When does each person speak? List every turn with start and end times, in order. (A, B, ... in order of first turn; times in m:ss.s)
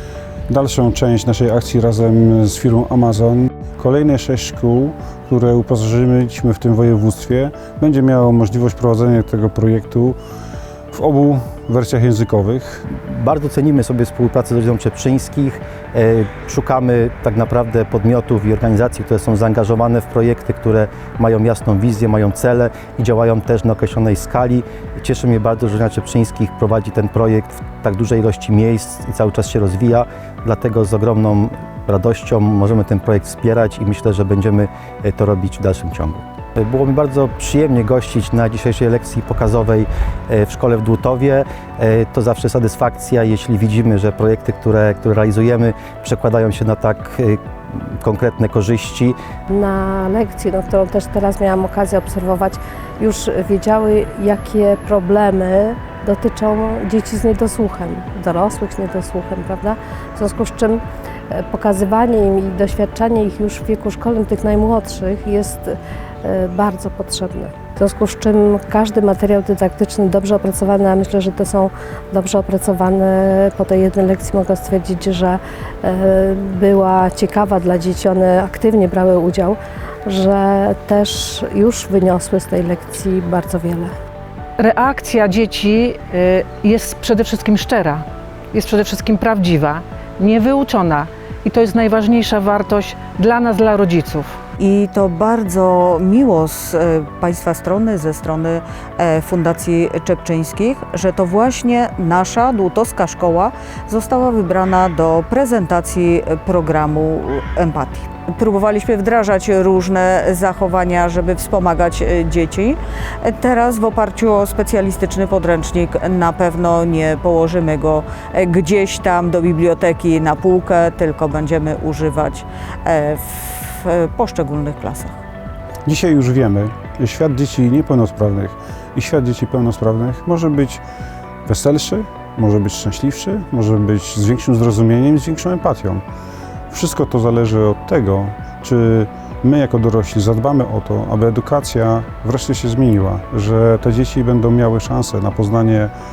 0:00.5-0:10.2 A
0:10.9-0:12.9 A
0:13.0-0:49.2 B
0:49.5-1:23.9 C
1:24.6-1:34.4 D
1:34.6-2:05.2 E
2:05.8-2:10.8 A
2:11.4-2:16.0 A
2:16.7-2:25.9 A